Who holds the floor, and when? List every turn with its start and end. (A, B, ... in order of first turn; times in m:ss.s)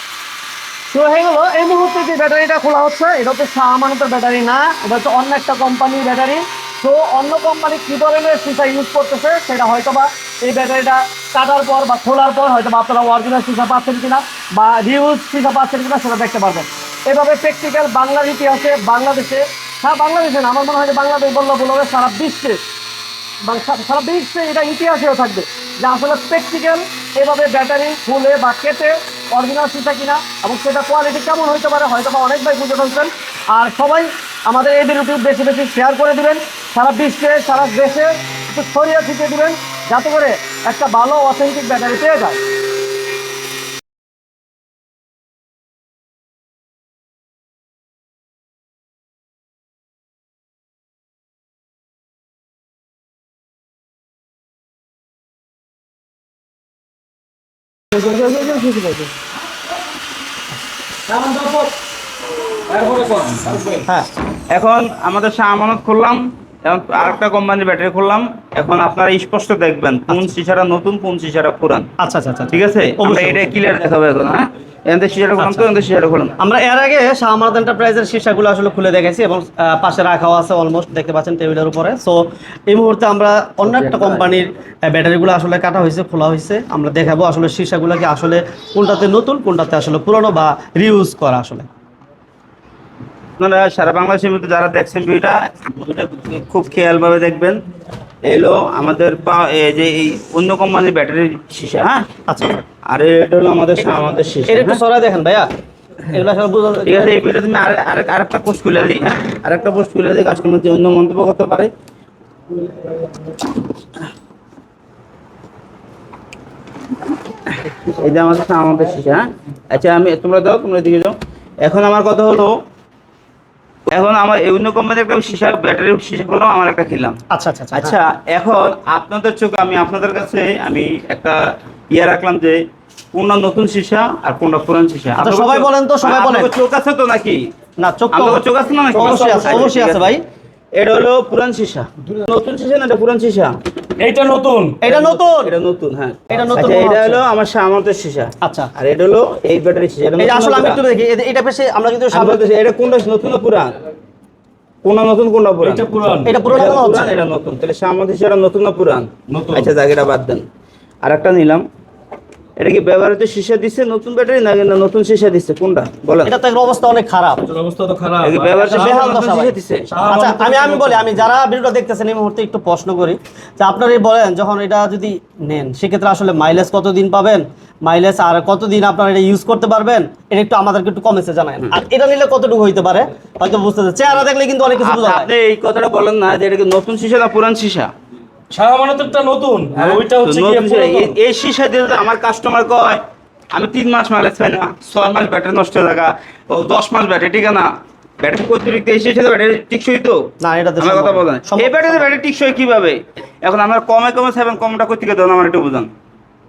0:00.9-0:22.6 A
0:23.5-0:42.4 A
0:57.9-0:59.1 A
1:01.1-1:01.7 B
1:02.7-1:03.8 B
1:04.5-1:11.9 C
1:12.0-1:13.5 A
1:12.5-1:16.4 C
1:15.4-1:15.7 A
1:16.4-1:31.7 A
1:23.7-1:24.2 C
1:33.4-1:37.6 C
1:38.2-1:42.1 C
1:42.3-1:42.6 A
1:42.9-1:44.8 C
1:44.5-1:45.5 A
1:46.1-1:47.1 A
1:46.8-1:51.7 C
1:57.5-2:02.5 C
2:03.9-2:07.2 C
2:07.3-2:08.0 A
2:07.7-2:11.4 C
2:11.9-2:12.6 C
2:13.1-2:17.4 C
2:15.2-2:16.5 A
2:17.8-2:18.4 A
2:18.1-2:20.1 C
2:18.9-2:19.7 B
2:19.0-2:20.2 A
2:20.8-2:23.5 C
2:24.0-2:24.8 B
2:24.8-2:25.5 A
2:24.9-2:30.8 C
2:26.3-2:27.2 A
2:28.4-2:28.7 A
2:30.2-2:32.4 A
2:32.1-2:33.8 C
2:34.8-2:35.9 C
2:35.6-2:36.8 B
2:36.2-2:37.2 A
2:36.5-2:40.4 C
2:39.3-2:39.7 B
2:41.0-2:41.6 C
2:42.6-2:46.4 C
2:46.2-2:47.4 A
2:47.5-2:49.2 B
2:48.2-2:49.9 C
2:48.6-3:05.3 A
2:49.9-2:51.2 B
3:04.7-3:07.9 C
3:08.5-3:11.1 B
3:09.8-3:13.0 C
3:13.5-3:17.7 C
3:18.2-3:20.2 C
3:20.4-3:22.1 A
3:20.8-3:25.9 C